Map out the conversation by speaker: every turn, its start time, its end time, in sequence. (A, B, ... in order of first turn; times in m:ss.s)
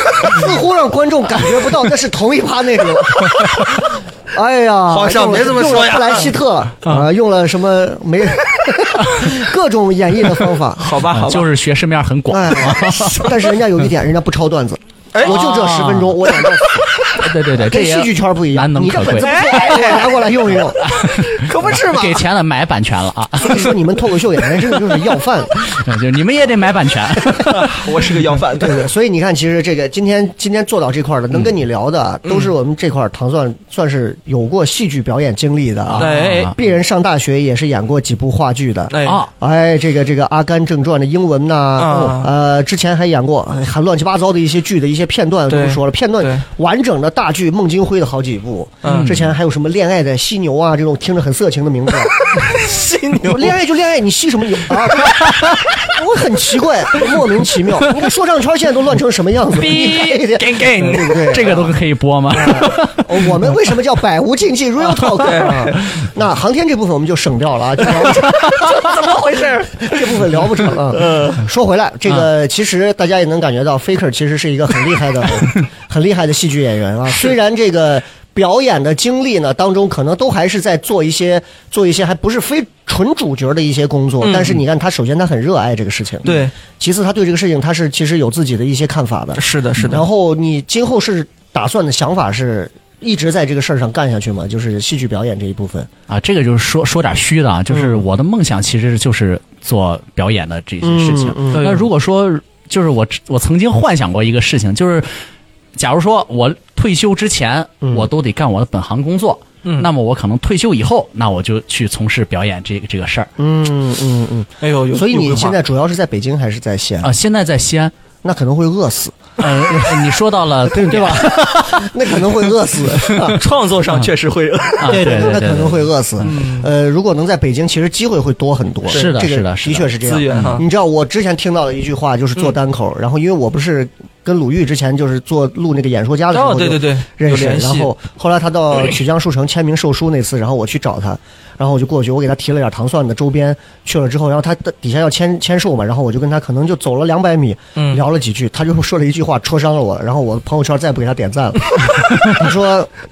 0:00.2-0:10.9 A
0:04.9-0:06.3 B
0:10.8-0:11.5 B
0:11.1-0:13.3 C
0:12.3-0:16.9 A
0:15.1-0:15.6 B
0:15.2-0:16.2 C
0:17.1-0:19.3 C
0:17.6-0:20.8 A
0:19.2-0:20.2 B
0:20.8-0:23.7 C
0:21.3-0:22.2 B
0:23.4-0:25.6 A
0:25.6-0:27.8 C
0:27.6-0:28.8 B
0:28.6-0:52.4 A
0:32.2-0:32.5 B
0:35.9-0:36.5 C
0:36.0-0:36.5 B
0:38.9-0:39.2 B
0:39.0-0:39.3 C
0:41.8-0:42.3 B
0:45.5-0:46.4 B
0:48.8-0:49.1 B
0:48.8-0:49.3 C
0:52.3-0:53.6 B
0:53.2-1:01.7 A
0:55.2-0:55.5 C
0:59.5-1:01.5 B
1:01.3-1:03.3 C
1:02.3-1:35.9 A
1:04.9-1:05.9 B
1:08.0-1:11.4 B
1:24.2-1:24.6 B
1:26.2-1:26.5 B
1:29.4-1:30.0 B
1:36.1-1:45.1 C
1:37.7-1:38.0 A
1:40.8-1:41.7 A
1:41.5-1:41.8 B
1:45.8-1:53.3 C
1:49.6-1:49.9 B
1:53.4-1:57.1 A
1:54.6-1:55.5 B
1:57.0-1:57.9 C
1:58.2-2:00.0 A
1:59.4-2:02.3 C
2:00.6-2:03.4 A
2:03.0-2:03.3 C
2:03.2-2:05.4 B
2:04.8-2:06.2 C
2:04.8-2:32.9 A
2:06.2-2:06.7 B
2:08.9-2:09.2 B
2:08.9-2:10.6 C
2:10.0-2:10.6 B
2:16.3-2:17.9 B
2:27.8-2:28.0 B